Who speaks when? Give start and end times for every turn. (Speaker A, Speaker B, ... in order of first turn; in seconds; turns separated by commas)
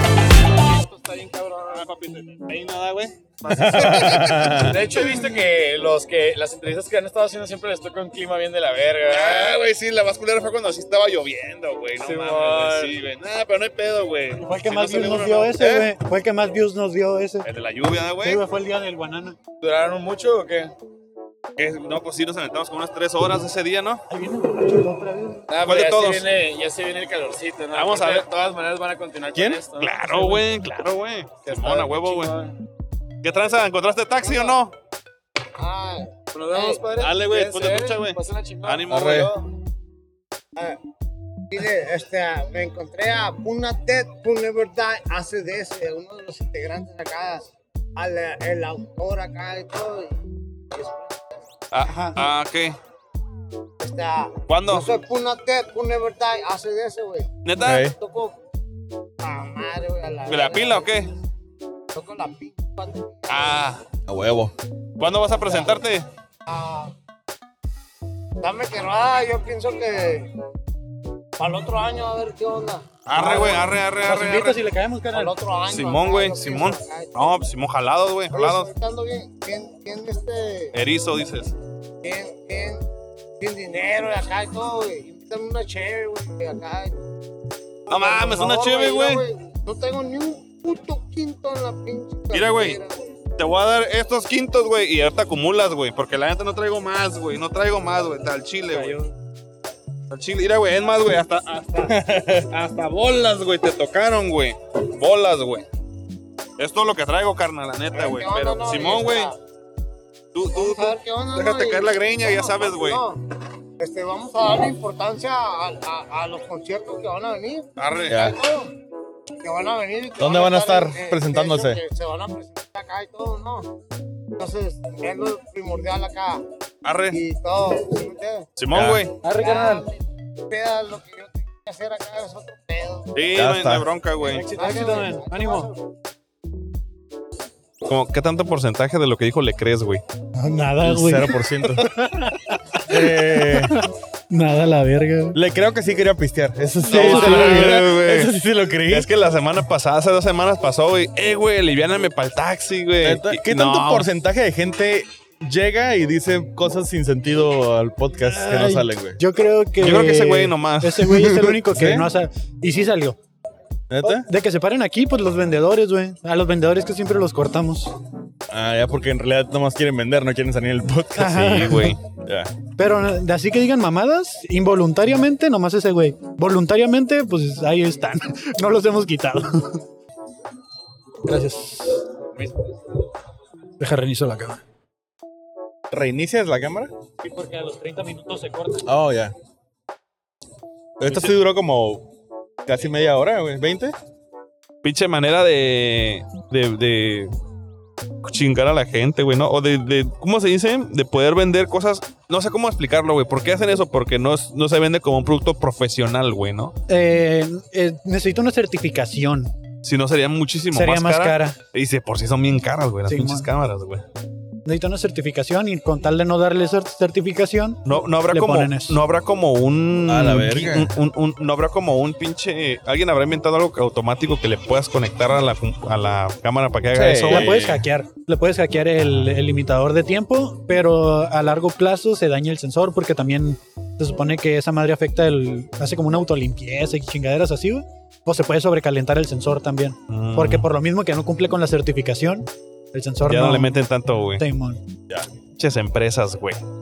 Speaker A: 0.2-2.3, Speaker B: 1.7-4.8, Speaker C: 3.5-4.7, Speaker A: 4.0-9.6, Speaker B: 9.1-15.9, Speaker A: 12.0-13.0, Speaker D: 14.4-17.4, Speaker B: 17.4-18.4, Speaker D: 18.2-19.3, Speaker A: 19.6-20.7, Speaker B: 21.6-24.0, Speaker D: 24.1-25.5, Speaker A: 25.5-30.5, Speaker B: 25.6-26.3, Speaker B: 27.7-28.3, Speaker C: 29.3-29.6, Speaker B: 29.4-32.4, Speaker A: 31.4-32.5, Speaker B: 33.2-34.7, Speaker E: 34.2-34.5, Speaker E: 35.6-36.9, Speaker A: 36.3-39.3, Speaker B: 36.9-39.3, Speaker C: 38.9-39.3, Speaker E: 41.5-47.4, Speaker E: 48.0-51.4, Speaker B: 51.7-52.8, Speaker D: 51.8-52.2, Speaker E: 53.8-57.3, Speaker B: 54.5-54.9, Speaker B: 57.4-57.9, Speaker C: 57.6-57.9, Speaker E: 58.0-58.3, Speaker E: 59.2-60.9, Speaker B: 60.3-61.1, Speaker E: 61.9-63.6, Speaker B: 63.3-63.8, Speaker C: 64.1-64.5, Speaker B: 65.0-66.0, Speaker E: 66.5-66.9, Speaker E: 68.4-70.3, Speaker E: 71.4-72.9, Speaker B: 73.0-74.6, Speaker D: 73.1-75.3, Speaker E: 75.1-77.4, Speaker B: 75.7-78.7, Speaker E: 78.3-80.7, Speaker B: 80.7-81.5, Speaker E: 82.0-82.8, Speaker E: 83.4-87.0, Speaker E: 87.9-93.0, Speaker B: 87.9-89.2, Speaker B: 92.3-92.8, Speaker B: 93.4-99.0, Speaker B: 100.1-105.7, Speaker B: 106.6-109.3, Speaker E: 107.9-109.3, Speaker B: 110.3-113.0, Speaker E: 110.5-113.2, Speaker E: 113.8-118.7, Speaker B: 117.8-118.3, Speaker C: 118.1-118.3, Speaker E: 119.4-123.7, Speaker C: 120.2-121.8, Speaker E: 124.4-126.4, Speaker B: 126.8-127.2, Speaker E: 127.1-128.5, Speaker B: 128.6-129.1, Speaker C: 128.7-129.0, Speaker D: 129.2-129.8, Speaker E: 129.3-133.1, Speaker B: 133.1-134.6, Speaker C: 133.3-133.9, Speaker D: 134.2-135.7, Speaker E: 134.3-135.8, Speaker B: 137.8-140.0, Speaker D: 140.4-145.4, Speaker C: 140.8-141.9, Speaker C: 142.8-143.8, Speaker C: 145.3-149.1, Speaker B: 146.9-148.3, Speaker D: 146.9-147.7, Speaker B: 148.9-154.1, Speaker C: 153.0-159.2, Speaker D: 158.2-163.2, Speaker B: 159.8-161.5, Speaker C: 161.7-162.1, Speaker C: 163.9-164.3, Speaker D: 164.0-167.9, Speaker C: 168.5-171.6, Speaker D: 171.2-172.0, Speaker B: 171.2-172.0, Speaker C: 172.1-172.5, Speaker D: 172.8-179.8, Speaker D: 181.2-182.1, Speaker D: 183.8-184.6, Speaker C: 185.9-186.9, Speaker D: 187.2-188.8, Speaker C: 188.8-189.3, Speaker C: 191.0-192.1, Speaker B: 191.1-191.3, Speaker C: 192.7-193.9, Speaker B: 194.8-197.3, Speaker B: 198.2-206.7, Speaker D: 206.9-209.5, Speaker B: 209.8-214.0, Speaker D: 210.7-211.6, Speaker D: 213.1-213.5, Speaker D: 214.6-219.0, Speaker B: 217.8-227.5, Speaker C: 220.1-221.0, Speaker C: 226.9-227.8, Speaker D: 227.3-243.7, Speaker B: 240.1-240.7, Speaker B: 243.2-244.4, Speaker D: 244.4-244.8, Speaker B: 245.6-246.6